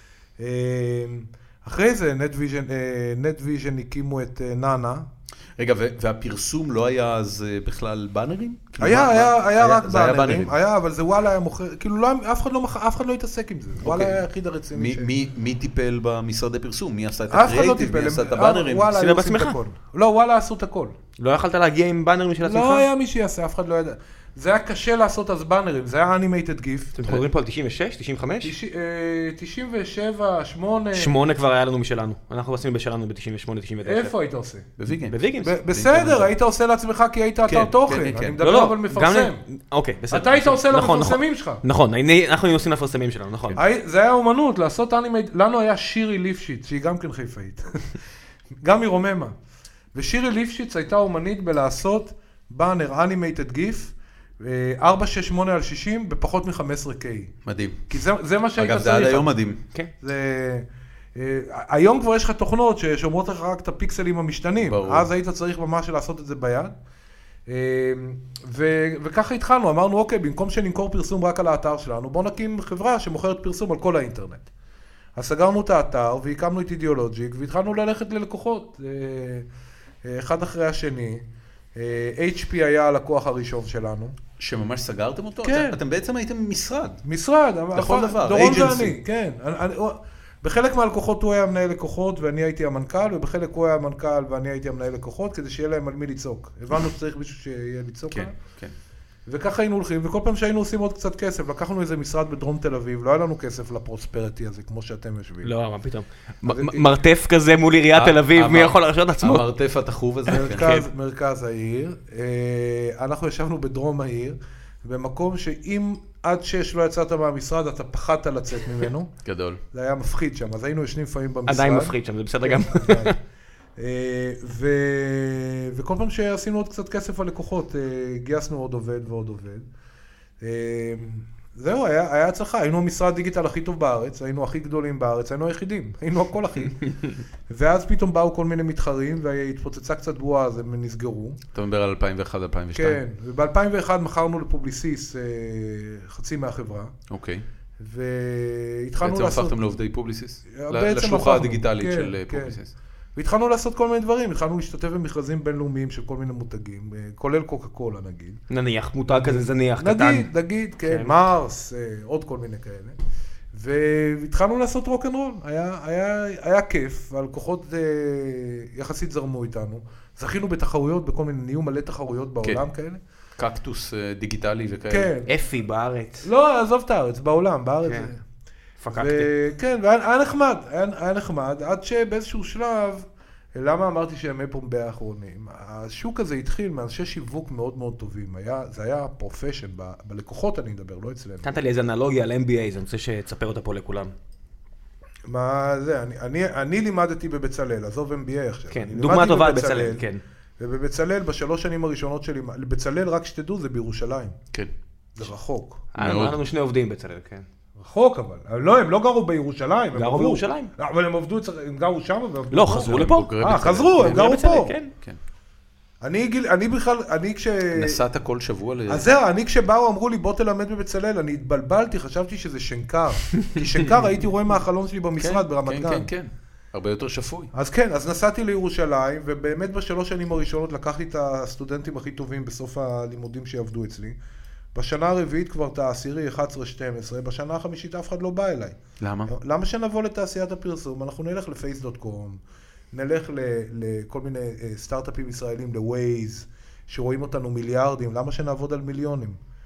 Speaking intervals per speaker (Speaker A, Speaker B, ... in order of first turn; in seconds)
Speaker A: 0.4-5.1, 8.8-15.1, 17.3-20.9, 22.4-26.9, 28.4-31.2, 33.9-34.7, 35.4-39.4, 40.1-41.6, 43.6-47.9, 48.6-49.3, 49.9-57.4, 57.9-59.4, 60.0-66.7, 67.5-74.5, 75.2-79.5, 80.0-81.2, 81.8-84.2, 85.4-85.8, 87.0-98.4, 99.3-105.5, 106.5-107.0, 110.3-119.1, 119.7-123.2, 123.8-129.7, 130.4-141.4, 142.7-146.9, 147.8-149.6, 150.5-152.6, 153.2-158.4, 159.1-163.0, 163.5-173.0, 174.9-175.3, 176.2-178.2, 178.9-191.5, 195.3-200.1, 200.6-204.4, 205.2-205.9, 207.8-214.8, 216.0-218.0, 218.9-226.1, 227.5-234.2, 234.7-242.4, 242.9-249.4
Speaker B: 5.6-10.5, 13.8-14.2, 14.7-18.9, 34.8-35.2, 35.7-36.3, 37.5-38.4, 57.5-58.0, 58.6-59.6, 64.6-65.1, 84.4-87.0, 87.7-89.0, 98.1-98.7, 108.0-110.8, 119.2-119.6, 141.6-143.0, 147.1-147.4, 149.0-152.7, 173.4-175.1, 206.0-206.4, 212.7-214.4, 217.7-219.1, 225.2-227.5, 239.0-239.3
Speaker C: 18.9-19.6, 21.2-22.9, 26.9-28.5, 30.9-34.1, 35.1-35.6, 38.4-43.6, 105.4-109.5, 110.4-110.8, 121.5-123.2, 158.5-160.3, 160.8-161.1, 175.3-176.3, 177.8-178.1, 178.8-179.3, 191.4-194.1, 198.7-200.2, 205.9-207.5, 209.9-210.7, 212.5-213.4, 214.0-214.9